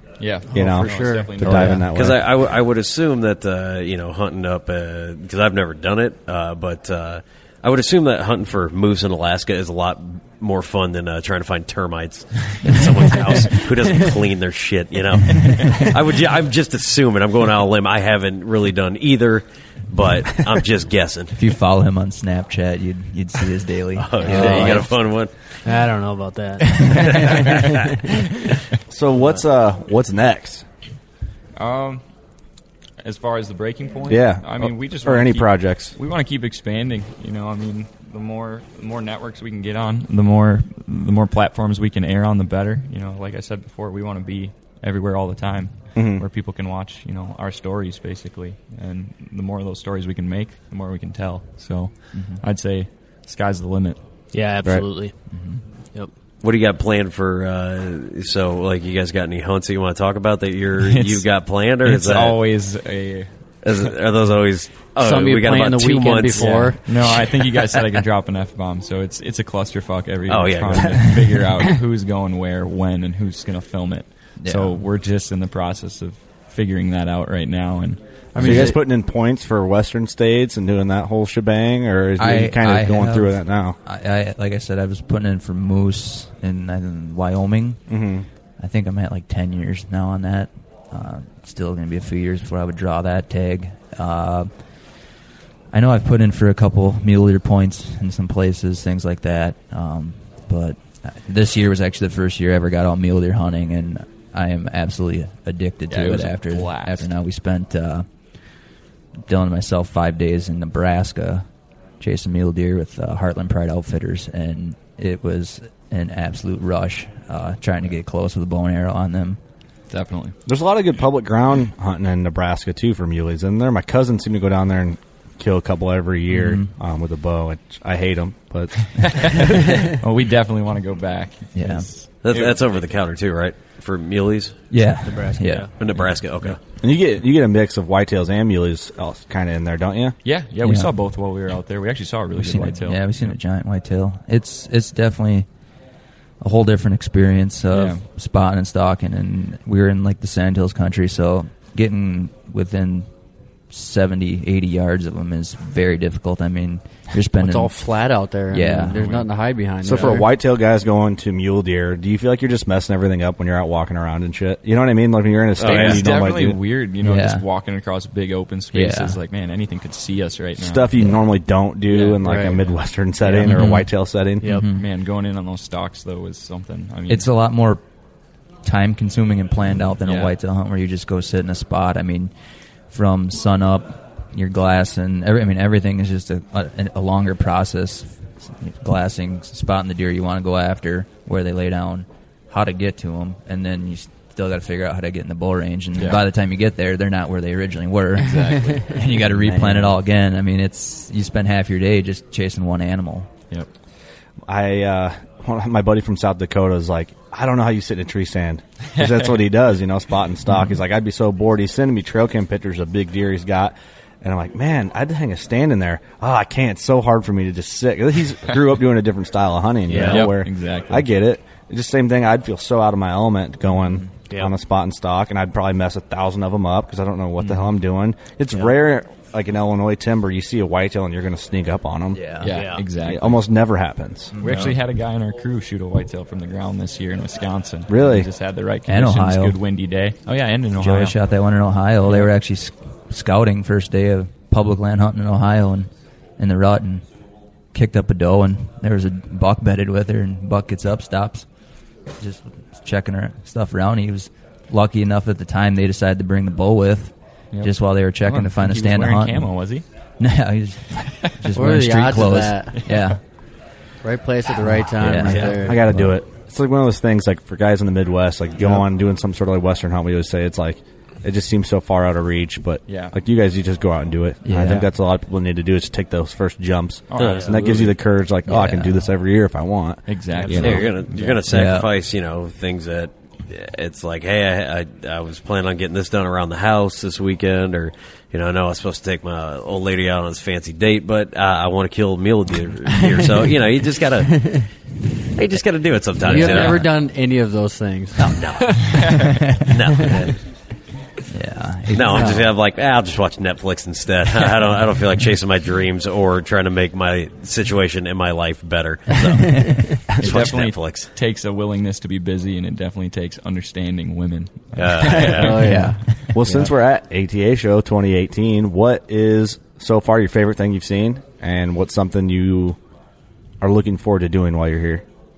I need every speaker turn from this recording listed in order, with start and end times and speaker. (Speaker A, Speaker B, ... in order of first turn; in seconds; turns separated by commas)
Speaker A: 0.2-1.9, Speaker B: 0.5-1.9, Speaker C: 0.5-2.3, Speaker D: 1.9-21.4, Speaker E: 15.5-15.8, Speaker E: 21.3-24.9, Speaker D: 24.0-25.3, Speaker F: 24.3-24.8, Speaker F: 25.6-26.7, Speaker C: 28.9-30.6, Speaker A: 31.6-32.0, Speaker A: 33.0-54.0, Speaker C: 34.1-36.0, Speaker C: 46.0-46.3, Speaker E: 52.1-52.4, Speaker F: 54.3-55.1, Speaker E: 55.3-55.6, Speaker D: 56.4-62.4, Speaker A: 60.8-61.3, Speaker A: 61.8-63.3, Speaker D: 63.6-67.2, Speaker B: 65.0-66.8, Speaker A: 66.8-78.8, Speaker D: 70.3-71.2, Speaker E: 74.4-74.8, Speaker B: 78.3-78.8, Speaker C: 78.4-83.8, Speaker E: 82.2-87.8, Speaker C: 87.9-88.3, Speaker E: 88.6-94.5, Speaker E: 95.7-108.1, Speaker A: 105.9-107.1, Speaker E: 109.2-111.5, Speaker E: 112.0-119.4, Speaker A: 119.9-120.4, Speaker C: 120.5-129.8, Speaker E: 126.3-126.7, Speaker A: 128.9-132.7, Speaker E: 131.6-131.9, Speaker D: 132.2-134.6, Speaker E: 134.7-135.7, Speaker F: 135.1-135.7, Speaker D: 135.8-136.6, Speaker A: 136.0-136.5, Speaker C: 136.8-140.2, Speaker A: 140.2-143.3, Speaker E: 140.6-140.9, Speaker E: 142.4-145.5, Speaker E: 146.4-153.1, Speaker A: 147.7-148.0, Speaker E: 153.7-157.9, Speaker B: 157.4-160.3, Speaker E: 158.5-159.2, Speaker C: 159.8-166.6, Speaker A: 165.6-170.9, Speaker D: 165.6-166.0, Speaker E: 167.0-167.4, Speaker E: 168.7-169.2, Speaker C: 170.6-174.6, Speaker A: 171.9-173.8, Speaker B: 172.2-172.6, Speaker E: 173.4-173.9, Speaker E: 174.4-174.9, Speaker A: 174.6-177.3, Speaker E: 177.1-177.8, Speaker E: 178.6-182.3, Speaker A: 180.1-180.3, Speaker E: 182.9-203.3, Speaker A: 196.0-196.2, Speaker A: 198.2-200.0, Speaker C: 204.5-234.4, Speaker A: 208.9-209.3, Speaker E: 210.5-210.7, Speaker A: 219.9-221.1, Speaker E: 219.9-220.3, Speaker E: 232.1-232.5, Speaker A: 232.4-233.5, Speaker F: 232.5-232.8, Speaker E: 234.4-234.8, Speaker A: 234.4-241.2, Speaker C: 237.9-238.3, Speaker E: 238.9-239.6, Speaker E: 240.8-247.1, Speaker E: 247.7-251.5, Speaker E: 252.2-259.6, Speaker A: 257.5-259.8, Speaker E: 260.2-263.2, Speaker A: 261.2-261.5, Speaker B: 261.5-262.9, Speaker A: 262.7-263.2, Speaker B: 264.0-265.9, Speaker E: 264.9-266.1, Speaker A: 265.2-265.6, Speaker C: 265.2-280.9, Speaker A: 272.9-273.1, Speaker E: 274.4-274.9, Speaker A: 277.1-278.0, Speaker E: 278.5-279.1, Speaker A: 280.1-281.5, Speaker D: 280.5-294.6, Speaker E: 281.5-281.9, Speaker B: 294.3-294.7, Speaker D: 295.4-296.9, Speaker B: 296.2-298.4, Speaker E: 296.3-296.9, Speaker A: 296.4-296.8, Speaker E: 298.2-300.3, Speaker D: 298.3-299.0, Speaker A: 298.6-299.5, Speaker D: 299.6-300.4, Speaker E: 301.3-302.5, Speaker D: 301.9-311.1, Speaker B: 302.1-302.5, Speaker B: 309.4-310.0, Speaker A: 310.2-316.6, Speaker D: 314.8-315.6, Speaker B: 315.3-316.7, Speaker E: 315.6-316.4, Speaker C: 316.3-322.8, Speaker C: 323.6-325.0